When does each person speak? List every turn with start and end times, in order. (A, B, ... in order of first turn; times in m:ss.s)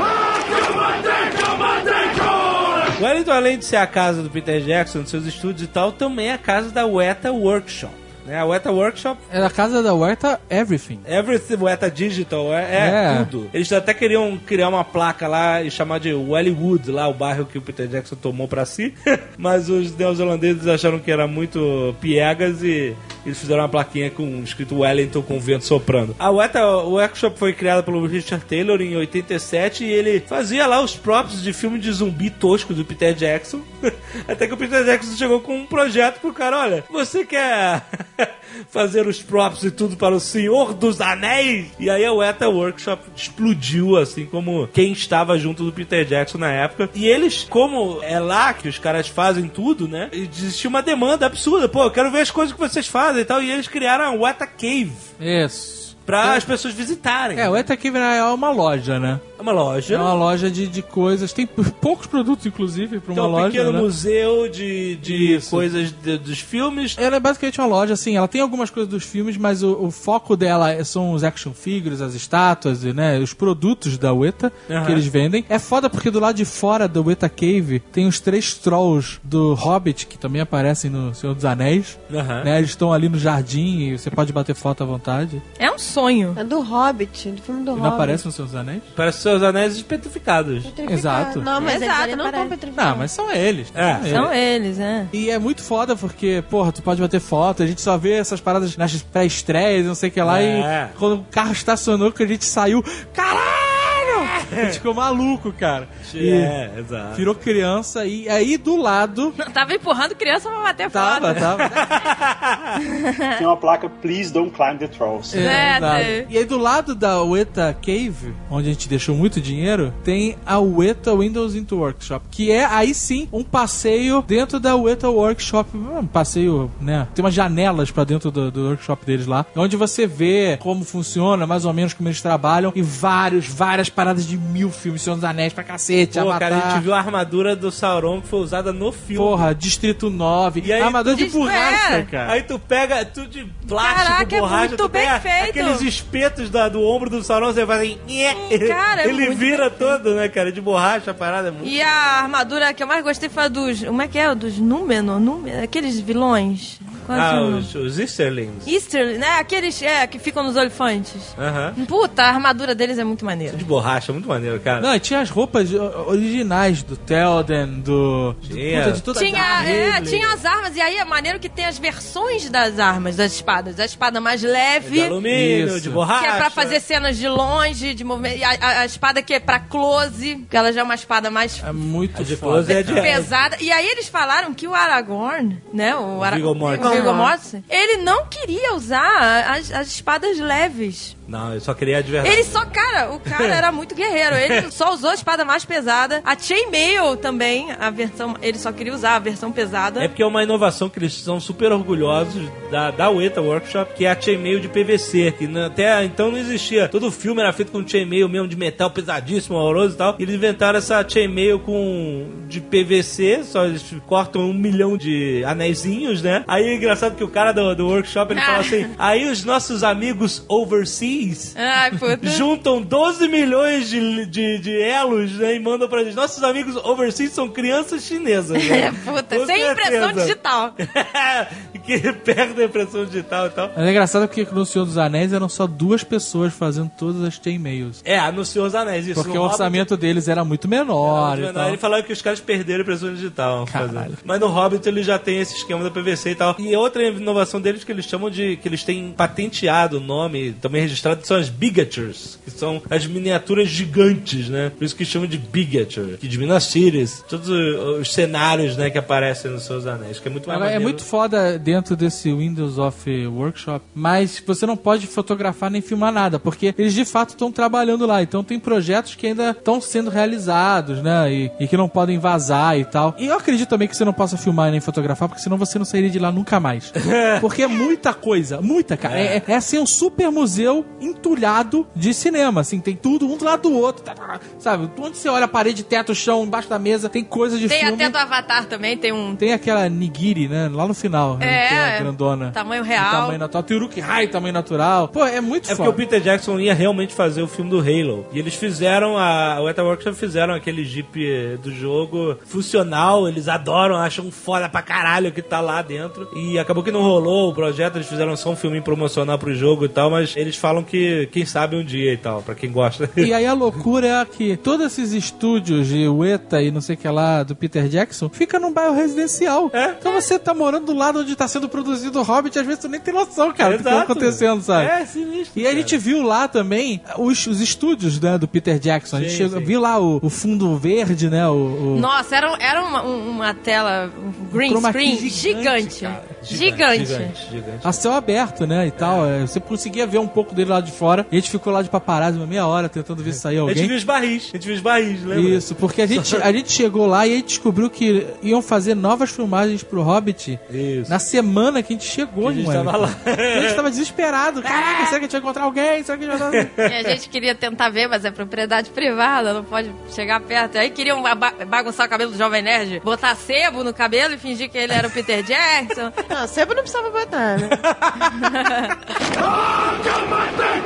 0:02.9-0:09.3 A
0:09.3-0:11.0 B
0:11.0-0:55.1 A
0:12.8-0:13.3 B
0:55.2-0:56.5 B
0:56.1-0:57.6 A
0:57.3-0:59.2 B
0:59.4-1:00.2 A
0:59.9-1:03.9 B
1:03.1-1:07.0 A
1:05.0-1:05.6 B
1:07.0-1:25.4 B
1:14.7-1:15.0 A
1:22.1-1:22.5 A
1:25.6-1:26.4 C
1:26.4-1:28.2 D
1:27.7-1:28.9 B
1:28.9-1:30.7 A
1:30.6-1:33.1 D
1:30.8-1:31.5 B
1:31.6-1:32.5 C
1:32.7-1:34.3 B
1:33.7-1:34.3 A
1:34.1-1:35.1 C
1:35.1-1:46.5 B
1:40.2-1:40.9 A
1:44.3-1:44.8 A
1:46.0-1:47.3 A
1:47.1-1:49.4 B
1:49.4-1:51.5 C
1:50.9-1:51.9 B
1:51.4-1:52.8 A
1:52.9-1:53.4 C
1:53.4-1:55.6 E
1:55.3-2:16.8 B
1:55.4-1:56.3 C
2:16.1-2:19.4 A
2:19.1-2:22.4 B
2:20.6-2:21.2 A
2:21.0-2:22.1 C
2:22.2-2:31.8 A
2:23.7-2:25.8 C
2:28.3-2:30.0 C
2:31.6-2:37.7 C
2:37.1-2:38.7 A
2:38.6-2:43.6 C
2:41.4-2:41.8 A
2:43.5-2:44.9 A
2:44.8-2:50.0 B
2:48.4-2:50.4 A
2:49.1-2:55.2 C
2:54.8-2:56.8 A
2:55.3-2:56.0 B
2:56.1-3:01.6 C
3:01.6-3:03.1 B
3:02.1-3:03.3 A
3:02.7-3:11.1 C
3:06.2-3:07.2 A
3:06.8-3:07.3 D
3:11.3-3:12.6 A
3:12.2-3:20.1 C
3:13.3-3:13.6 A
3:20.0-3:41.6 A
3:38.3-3:38.8 C
3:41.6-3:42.4 C
3:42.2-3:53.7 A
3:48.6-3:50.7 C
3:53.7-3:58.0 B
3:58.0-3:59.8 A
3:59.1-4:01.8 B
4:01.0-4:21.0 A
4:03.7-4:04.2 B
4:20.5-4:48.1 B
4:37.0-4:37.4 A
4:39.0-4:39.4 A
4:47.6-4:49.4 C
4:49.4-4:56.0 B
4:51.4-4:53.4 C
4:55.7-5:13.3 A
5:13.2-5:24.9 B
5:19.7-5:20.0 A
5:23.6-5:26.0 A
5:25.5-5:32.1 B
5:29.1-5:29.7 A
5:31.9-5:37.4 C
5:34.5-5:36.2 B
5:36.2-5:38.0 A
5:37.8-5:43.9 B
5:39.0-5:39.3 A
5:43.6-5:46.4 A
5:45.3-5:56.7 B
5:50.7-5:51.1 A
5:52.4-5:53.8 A
5:56.5-5:57.1 A
5:56.8-6:06.2 C
6:06.3-6:07.8 D
6:08.3-6:08.9 C